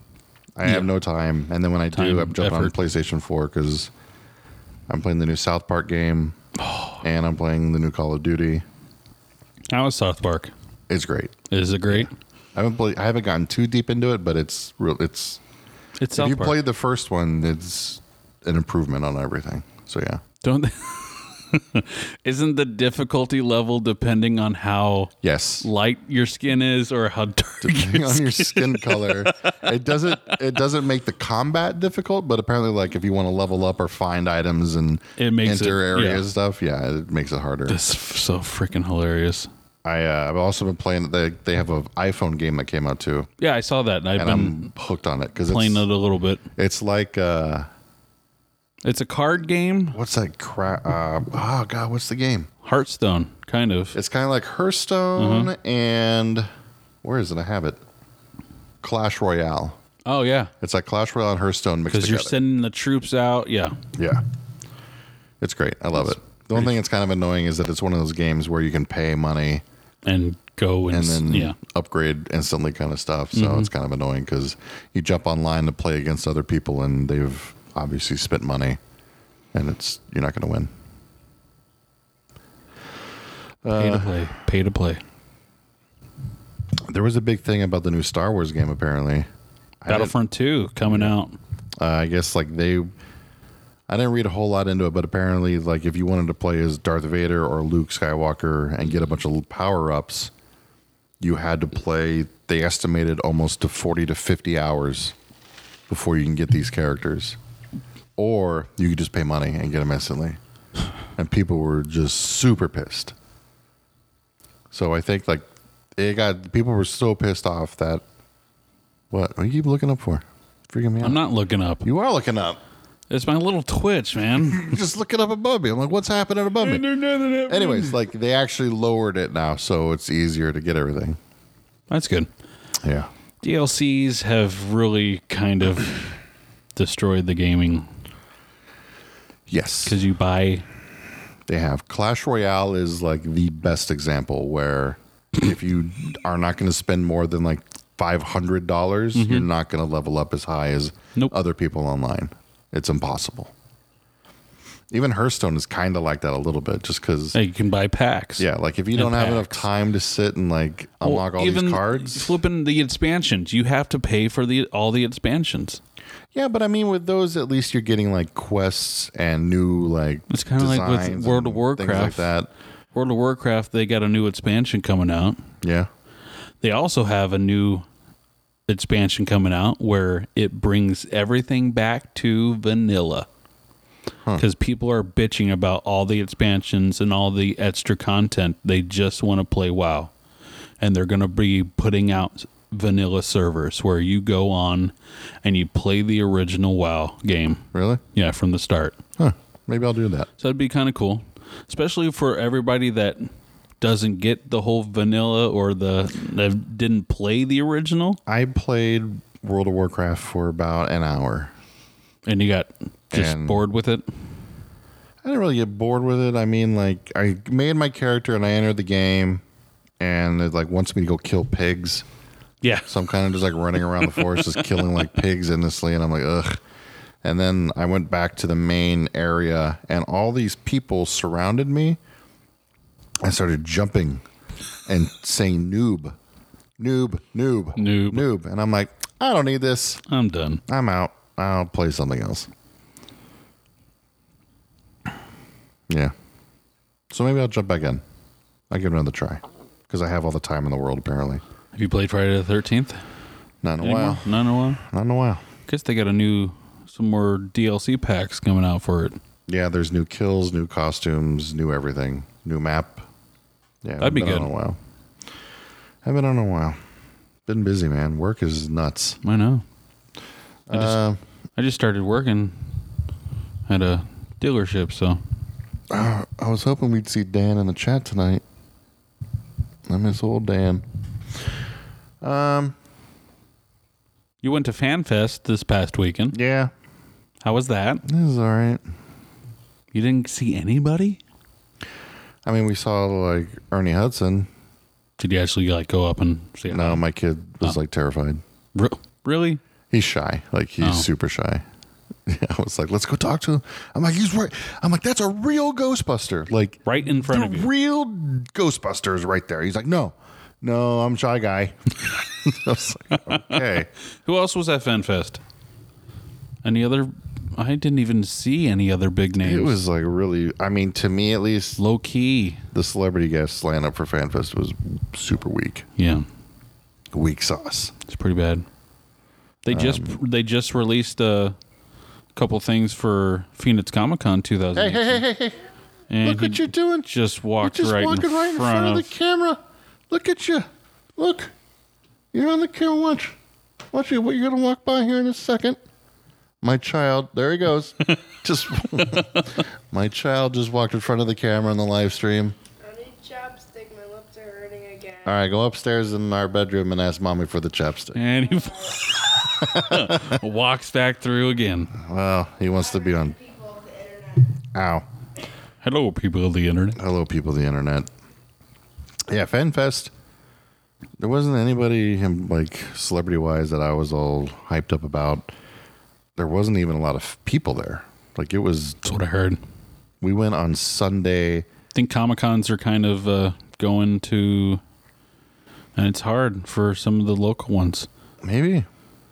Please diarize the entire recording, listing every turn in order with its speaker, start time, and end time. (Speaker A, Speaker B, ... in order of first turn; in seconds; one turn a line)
Speaker A: 0.6-3.9
Speaker B: 1.9-2.7
Speaker A: 4.9-6.3
Speaker B: 6.6-7.0
Speaker A: 7.0-8.6
Speaker B: 9.7-10.5
Speaker A: 10.9-11.3
Speaker B: 11.5-12.1
Speaker A: 12.5-15.4
Speaker B: 16.0-16.6
Speaker A: 16.1-20.2
Speaker B: 20.4-30.3
Speaker A: 25.2-25.7
Speaker A: 27.6-37.8
Speaker B: 35.2-36.2
Speaker B: 37.7-39.5
Speaker A: 39.8-43.3
Speaker B: 43.4-44.7
Speaker A: 44.2-45.9
Speaker B: 45.4-46.4
Speaker A: 46.5-47.7
Speaker B: 48.8-50.0
Speaker A: 49.9-52.5
Speaker B: 52.6-53.9
Speaker A: 53.9-56.5
Speaker B: 55.2-55.5
Speaker A: 57.0-57.8
Speaker A: 58.8-59.8
Speaker B: 60.1-60.5
Speaker A: 60.6-62.4
Speaker B: 61.9-63.8
Speaker A: 64.0-64.2
Speaker A: 65.4-69.6
Speaker B: 70.0-71.5
Speaker A: 70.9-78.8
Speaker B: 73.3-73.7
Speaker A: 79.5-80.7
Speaker A: 83.6-84.2
Speaker B: 83.7-85.0
Speaker A: 86.9-89.3
Speaker A: 89.8-90.1
Speaker B: 89.9-91.3
Speaker A: 90.9-91.1
Speaker A: 91.8-92.9
Speaker A: 93.9-100.3
Speaker A: 101.2-105.2
Speaker A: 105.9-107.4
Speaker A: 108.2-110.4
Speaker A: 111.2-113.1
Speaker A: 114.7-118.0
Speaker A: 119.1-121.2
Speaker B: 121.0-121.8
Speaker A: 121.8-122.6
Speaker B: 123.1-124.8
Speaker A: 124.3-126.8
Speaker B: 126.6-128.0
Speaker A: 127.5-131.2
Speaker B: 131.9-132.3
Speaker A: 132.8-133.1
Speaker B: 133.4-136.2
Speaker B: 136.8-137.9
Speaker A: 139.5-140.0
Speaker B: 139.8-140.6
Speaker A: 141.5-153.5
Speaker B: 149.1-149.5
Speaker A: 154.9-157.4
Speaker B: 157.3-159.7
Speaker A: 158.4-162.4
Speaker B: 161.0-165.8
Speaker A: 166.3-172.5
Speaker B: 170.3-172.3
Speaker B: 172.9-175.4
Speaker A: 175.6-175.9
Speaker B: 176.6-177.8
Speaker B: 178.7-183.3
Speaker B: 184.3-190.1
Speaker B: 190.8-199.0
Speaker A: 197.7-198.0
Speaker A: 199.2-200.3
Speaker B: 200.4-203.3
Speaker B: 203.8-208.2
Speaker A: 208.2-211.5
Speaker B: 212.2-214.1
Speaker A: 213.1-213.6
Speaker A: 215.2-219.4
Speaker A: 220.0-222.0
Speaker B: 222.6-222.9
Speaker A: 222.9-226.6
Speaker B: 224.0-224.7
Speaker A: 227.2-232.0
Speaker A: 233.2-234.2
Speaker A: 234.9-236.1
Speaker A: 236.8-240.0
Speaker B: 237.8-238.2
Speaker B: 240.1-240.6
Speaker A: 240.7-242.5
Speaker A: 245.9-246.1
Speaker A: 247.1-248.0
Speaker A: 248.7-251.4
Speaker B: 251.7-253.0
Speaker A: 253.6-255.4
Speaker B: 253.8-254.8
Speaker B: 255.7-259.2
Speaker A: 259.5-263.1
Speaker A: 263.8-264.8
Speaker B: 264.0-264.5
Speaker A: 266.0-266.8
Speaker A: 267.4-269.2
Speaker B: 269.2-269.6
Speaker A: 270.7-271.2
Speaker B: 270.7-271.0
Speaker B: 271.6-272.8
Speaker B: 273.7-275.2
Speaker A: 275.9-278.4
Speaker A: 279.9-280.8
Speaker A: 282.2-282.7
Speaker B: 284.4-286.4
Speaker A: 286.3-286.7
Speaker B: 287.4-288.0
Speaker A: 288.0-288.8
Speaker B: 289.9-291.2
Speaker A: 292.4-294.5
Speaker B: 295.2-297.0
Speaker A: 296.7-298.4
Speaker B: 298.7-299.6
Speaker A: 299.9-301.6
Speaker A: 302.2-313.9
Speaker B: 306.8-307.7
Speaker B: 314.2-315.4
Speaker B: 316.6-319.8
Speaker A: 319.4-321.8
Speaker B: 321.8-322.6
Speaker A: 322.7-325.9
Speaker B: 326.0-326.2
Speaker A: 327.1-327.9
Speaker B: 328.1-328.6
Speaker B: 329.6-331.6
Speaker A: 329.7-330.1
Speaker B: 332.3-335.2
Speaker A: 334.7-335.6
Speaker B: 336.1-339.1
Speaker A: 336.2-337.1
Speaker A: 337.6-339.6
Speaker A: 340.1-341.5
Speaker A: 342.3-343.4
Speaker A: 343.9-345.8
Speaker A: 346.6-352.6
Speaker B: 349.1-349.4
Speaker C: 352.8-355.4
Speaker A: 355.2-358.2
Speaker B: 358.1-361.9
Speaker C: 358.4-359.0
Speaker A: 359.6-360.4
Speaker A: 361.9-363.4
Speaker C: 362.7-364.5
Speaker A: 364.7-365.0
Speaker B: 365.8-367.0
Speaker A: 366.9-368.1
Speaker A: 369.3-370.1
Speaker A: 371.2-375.5
Speaker A: 376.4-379.0
Speaker B: 379.0-379.6
Speaker A: 380.2-381.6
Speaker B: 381.9-384.8
Speaker B: 385.9-388.1
Speaker A: 388.4-388.9